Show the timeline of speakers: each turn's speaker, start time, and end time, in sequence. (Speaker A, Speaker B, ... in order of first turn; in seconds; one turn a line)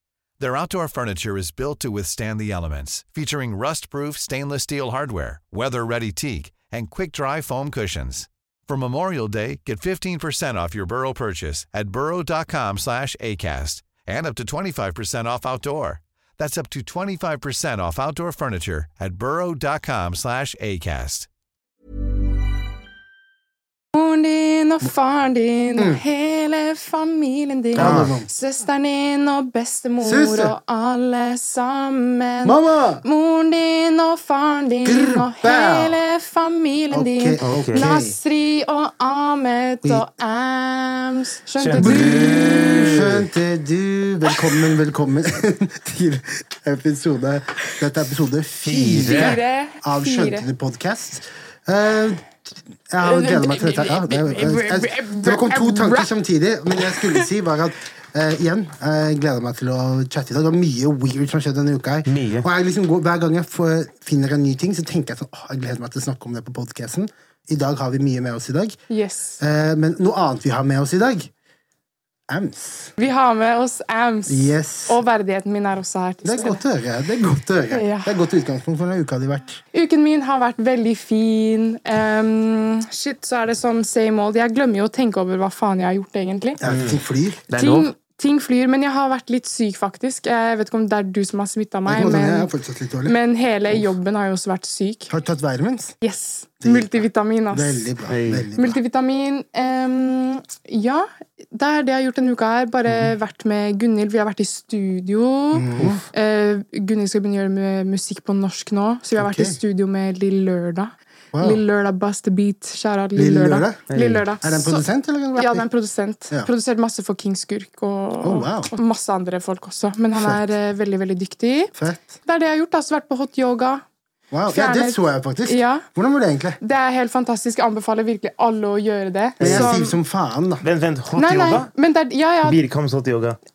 Speaker A: 0.4-21.3
Speaker B: 23.9-43.0
Speaker C: 25.8-26.0
Speaker C: 27.7-28.3
Speaker D: 27.8-28.2
Speaker C: 30.0-30.5
Speaker C: 32.4-33.0
Speaker C: 34.8-36.0
Speaker C: 36.9-38.2
Speaker D: 37.4-37.9
Speaker D: 41.6-43.3
Speaker C: 41.8-52.4
Speaker D: 48.6-49.4
Speaker B: 49.0-50.5
Speaker C: 52.9-68.8
Speaker B: 53.0-56.1
Speaker B: 56.8-57.2
Speaker D: 62.0-62.5
Speaker B: 68.9-69.4
Speaker C: 69.4-71.3
Speaker C: 72.3-72.9
Speaker B: 73.0-76.6
Speaker C: 74.3-75.0
Speaker C: 76.2-79.6
Speaker B: 77.7-78.1
Speaker B: 79.7-86.6
Speaker C: 86.6-87.4
Speaker D: 86.6-87.0
Speaker D: 87.5-87.9
Speaker B: 87.6-92.5
Speaker C: 91.9-93.2
Speaker B: 93.0-95.1
Speaker C: 95.1-96.0
Speaker B: 96.0-97.9
Speaker C: 96.6-98.8
Speaker D: 98.1-98.5
Speaker B: 98.5-114.8
Speaker C: 105.5-106.0
Speaker D: 105.8-106.0
Speaker C: 109.2-109.6
Speaker C: 111.3-111.6
Speaker C: 113.2-115.7
Speaker D: 113.9-114.2
Speaker B: 115.3-123.8
Speaker C: 118.2-118.7
Speaker C: 120.2-120.4
Speaker C: 121.7-122.0
Speaker C: 124.3-126.6
Speaker B: 124.5-125.8
Speaker B: 126.6-130.0
Speaker D: 129.4-129.7
Speaker C: 129.4-130.6
Speaker D: 130.6-131.7
Speaker B: 131.2-132.6
Speaker D: 132.4-133.4